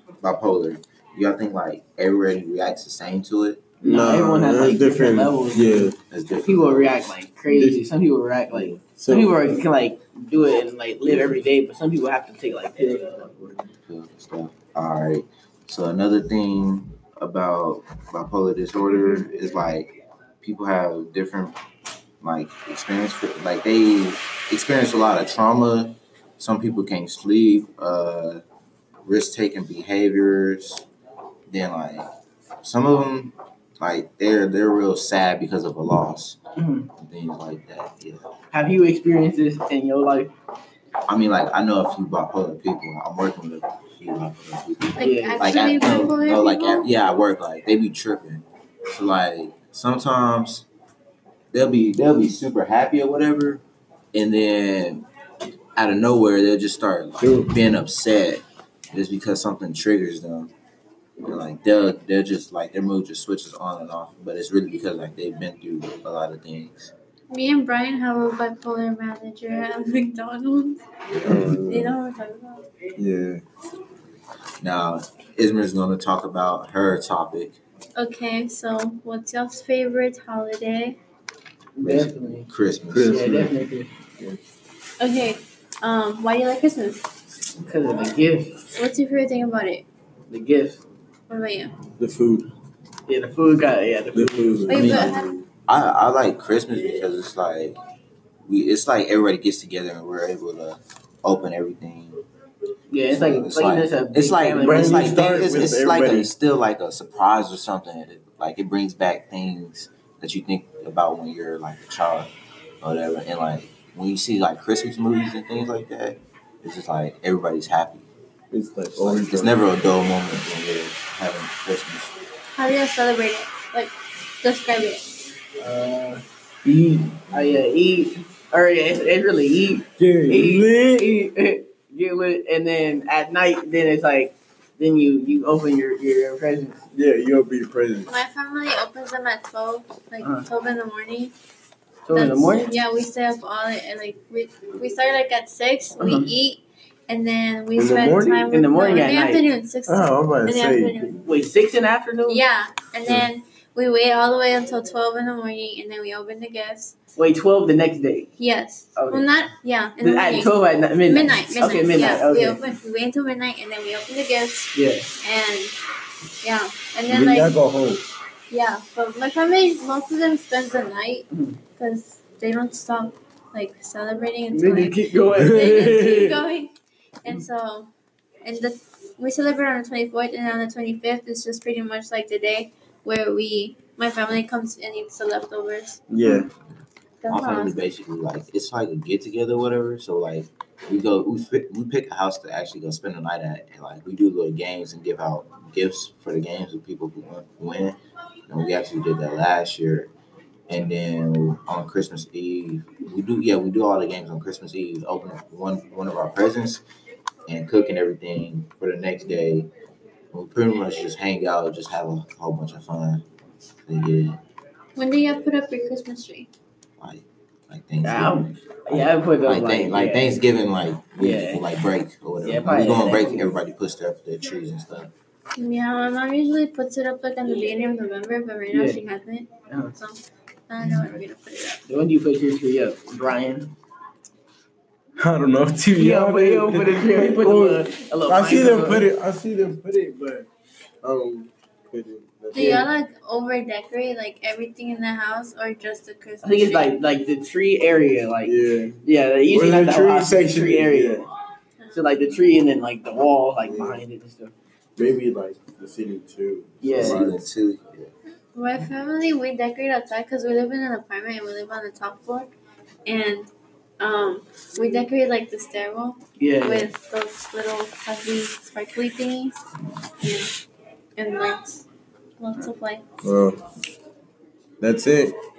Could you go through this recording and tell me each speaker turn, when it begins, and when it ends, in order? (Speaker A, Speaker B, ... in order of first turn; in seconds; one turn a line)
Speaker A: 0.2-3.7
Speaker B: 3.8-13.5
Speaker C: 3.8-6.0
Speaker A: 6.1-7.1
Speaker C: 7.5-7.8
Speaker C: 8.5-9.3
Speaker C: 11.1-11.3
Speaker A: 13.8-21.6
Speaker A: 22.2-28.4
Speaker A: 29.0-30.9
Speaker A: 31.5-32.1
Speaker A: 32.6-36.4
Speaker B: 36.6-36.9
Speaker A: 37.0-38.2
Speaker B: 38.5-40.3
Speaker A: 41.1-50.7
Speaker D: 45.0-46.9
Speaker B: 45.0-45.4
Speaker A: 51.5-55.1
Speaker A: 55.8-60.5
Speaker C: 57.2-57.5
Speaker A: 61.2-66.9
Speaker D: 67.3-70.8
Speaker A: 71.1-71.6
Speaker C: 71.2-72.0
Speaker D: 71.7-72.7
Speaker C: 73.0-73.4
Speaker A: 74.6-77.6
Speaker D: 78.0-81.0
Speaker B: 81.8-82.5
Speaker A: 81.8-83.2
Speaker C: 82.9-83.5
Speaker B: 83.0-83.9
Speaker D: 85.0-87.0
Speaker B: 87.6-88.6
Speaker D: 88.7-89.8
Speaker B: 90.3-90.8
Speaker D: 91.3-91.8
Speaker C: 92.0-92.5
Speaker B: 93.1-94.8
Speaker C: 94.1-95.3
Speaker D: 94.7-95.3
Speaker A: 94.7-97.8
Speaker A: 98.5-102.2
Speaker B: 102.9-105.4
Speaker A: 103.1-118.1
Speaker C: 104.6-106.3
Speaker C: 118.5-119.6
Speaker A: 118.9-122.2
Speaker D: 122.6-125.0
Speaker B: 125.6-136.8
Speaker C: 130.0-131.1
Speaker C: 136.9-138.1
Speaker D: 138.1-141.3
Speaker B: 140.2-140.5
Speaker B: 142.1-142.8
Speaker D: 142.1-151.2
Speaker B: 146.0-146.3
Speaker C: 147.8-148.5
Speaker B: 148.5-149.5
Speaker C: 149.9-151.1
Speaker B: 151.2-152.4
Speaker D: 152.3-156.9
Speaker B: 157.2-158.3
Speaker D: 158.4-165.8
Speaker B: 158.9-159.2
Speaker B: 160.0-162.6
Speaker B: 164.7-165.2
Speaker D: 166.4-167.6
Speaker C: 167.1-168.0
Speaker D: 168.5-177.9
Speaker B: 171.3-171.6
Speaker B: 174.5-176.2
Speaker C: 175.4-176.4
Speaker D: 178.4-186.1
Speaker C: 186.1-186.5
Speaker D: 187.2-187.8
Speaker A: 187.3-198.0
Speaker A: 198.5-200.1
Speaker A: 200.7-206.8
Speaker A: 207.5-209.7
Speaker A: 210.3-213.2
Speaker A: 213.9-214.4
Speaker D: 215.0-216.5
Speaker A: 217.0-225.1
Speaker B: 218.0-220.4
Speaker B: 221.2-221.7
Speaker B: 222.4-223.5
Speaker D: 225.6-231.8
Speaker B: 228.7-229.0
Speaker B: 229.7-229.9
Speaker B: 231.9-233.7
Speaker C: 235.2-240.5
Speaker B: 235.9-239.1
Speaker C: 241.0-242.9
Speaker D: 242.5-246.9
Speaker B: 246.4-251.3
Speaker C: 248.4-251.2
Speaker D: 251.8-252.2
Speaker B: 251.9-254.5
Speaker C: 253.6-254.0
Speaker C: 255.0-257.4
Speaker B: 256.8-257.2
Speaker A: 257.0-258.1
Speaker D: 258.6-262.5
Speaker D: 263.1-269.6
Speaker B: 266.4-266.9
Speaker D: 270.2-270.5
Speaker D: 271.2-271.8
Speaker D: 272.4-273.0
Speaker C: 273.2-273.6
Speaker C: 274.8-275.3